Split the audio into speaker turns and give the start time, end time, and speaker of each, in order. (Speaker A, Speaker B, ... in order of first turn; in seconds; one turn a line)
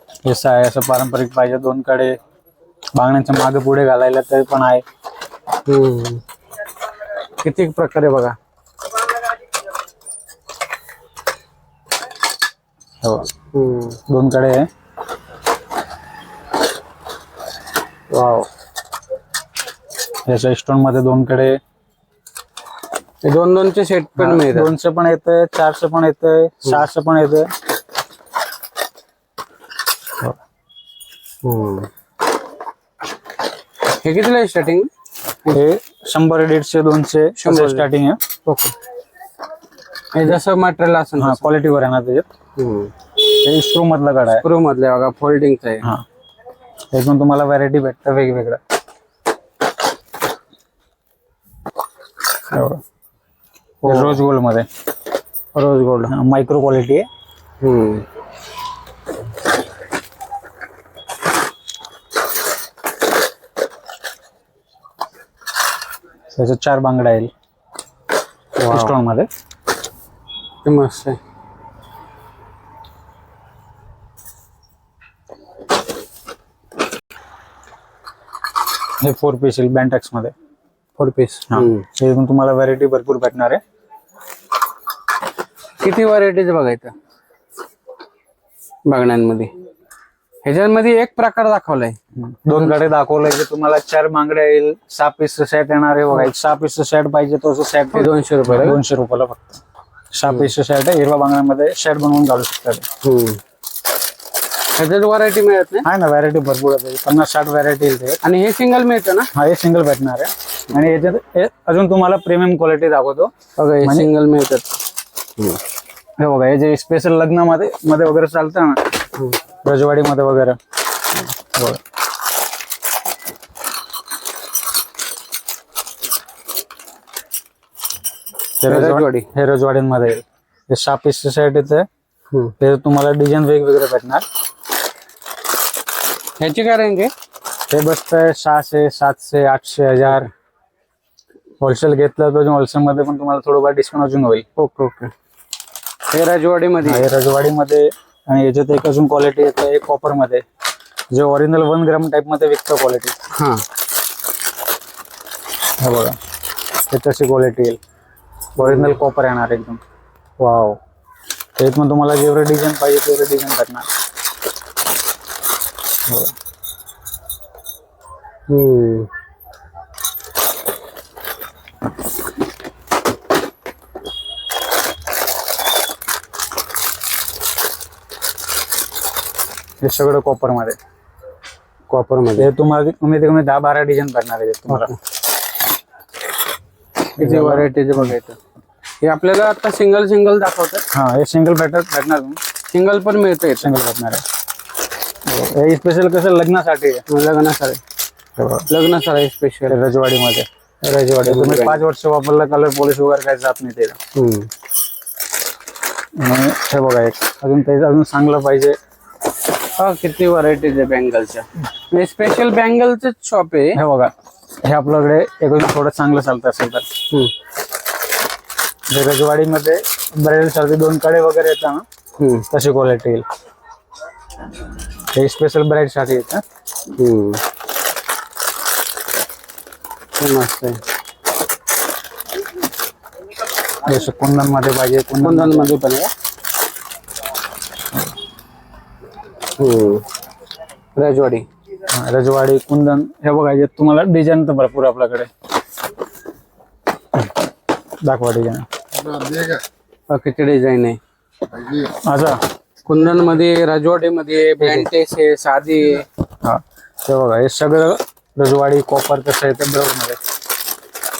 Speaker A: 0.2-2.1
Speaker A: 3.0-4.8
Speaker B: 5.7-6.2
Speaker B: 7.4-8.3
Speaker A: 13.0-13.3
Speaker B: 13.5-14.0
Speaker A: 14.1-14.7
Speaker B: 18.1-18.5
Speaker A: 20.3-21.6
Speaker B: 23.2-24.7
Speaker A: 24.2-27.5
Speaker B: 31.4-31.9
Speaker B: 34.0-34.9
Speaker A: 35.5-38.2
Speaker B: 37.4-37.9
Speaker B: 38.4-38.7
Speaker B: 40.1-41.5
Speaker A: 41.2-42.2
Speaker B: 42.6-42.9
Speaker A: 43.3-44.4
Speaker B: 44.4-45.9
Speaker A: 46.9-48.6
Speaker A: 52.5-52.8
Speaker A: 53.8-54.6
Speaker B: 53.9-54.2
Speaker B: 55.5-56.1
Speaker A: 56.1-57.0
Speaker B: 57.6-58.0
Speaker A: 66.3-67.3
Speaker B: 68.6-68.9
Speaker A: 68.7-69.3
Speaker B: 70.6-71.2
Speaker A: 79.0-80.3
Speaker B: 81.0-81.8
Speaker A: 81.5-83.6
Speaker B: 85.8-86.9
Speaker B: 88.8-89.5
Speaker B: 90.4-92.0
Speaker A: 92.2-99.6
Speaker B: 97.9-98.8
Speaker A: 100.1-102.8
Speaker B: 103.0-103.4
Speaker B: 104.8-105.9
Speaker A: 105.8-108.2
Speaker B: 108.2-109.3
Speaker A: 109.3-113.3
Speaker B: 113.6-114.7
Speaker A: 113.8-114.1
Speaker A: 116.2-118.8
Speaker A: 119.6-120.6
Speaker B: 128.6-129.3
Speaker A: 128.6-131.8
Speaker A: 132.6-134.2
Speaker B: 136.4-137.1
Speaker A: 137.7-140.3
Speaker A: 141.6-144.4
Speaker B: 144.6-145.1
Speaker B: 146.1-147.1
Speaker A: 146.8-150.4
Speaker A: 151.1-153.1
Speaker B: 153.3-153.6
Speaker A: 155.8-156.2
Speaker A: 156.9-157.8
Speaker A: 158.6-159.8
Speaker B: 158.6-159.0
Speaker B: 160.4-160.8
Speaker A: 161.6-163.8
Speaker A: 166.1-166.3
Speaker B: 168.5-169.1
Speaker A: 179.8-180.8
Speaker B: 181.9-182.5
Speaker A: 182.4-184.9
Speaker B: 187.2-188.4
Speaker A: 187.2-188.1
Speaker B: 189.0-190.8
Speaker A: 190.9-192.4
Speaker B: 192.7-193.7
Speaker A: 193.6-194.2
Speaker A: 195.3-197.0
Speaker B: 197.1-197.8
Speaker A: 198.4-198.7
Speaker B: 198.7-199.8
Speaker A: 199.7-203.9
Speaker B: 201.2-201.8
Speaker B: 204.1-204.5
Speaker A: 206.2-208.8
Speaker B: 209.8-213.8
Speaker A: 213.7-214.1
Speaker A: 214.6-216.8
Speaker A: 218.9-221.8
Speaker B: 222.2-222.5
Speaker A: 222.5-223.2
Speaker A: 225.1-226.4
Speaker B: 226.9-227.4
Speaker B: 230.2-230.8
Speaker A: 233.8-235.7
Speaker B: 235.2-236.1
Speaker B: 239.6-240.0
Speaker B: 240.9-241.4
Speaker A: 241.9-245.3
Speaker A: 248.0-248.7
Speaker B: 250.1-251.0
Speaker A: 251.8-252.4
Speaker B: 252.8-256.1
Speaker A: 254.6-254.9
Speaker A: 256.4-260.2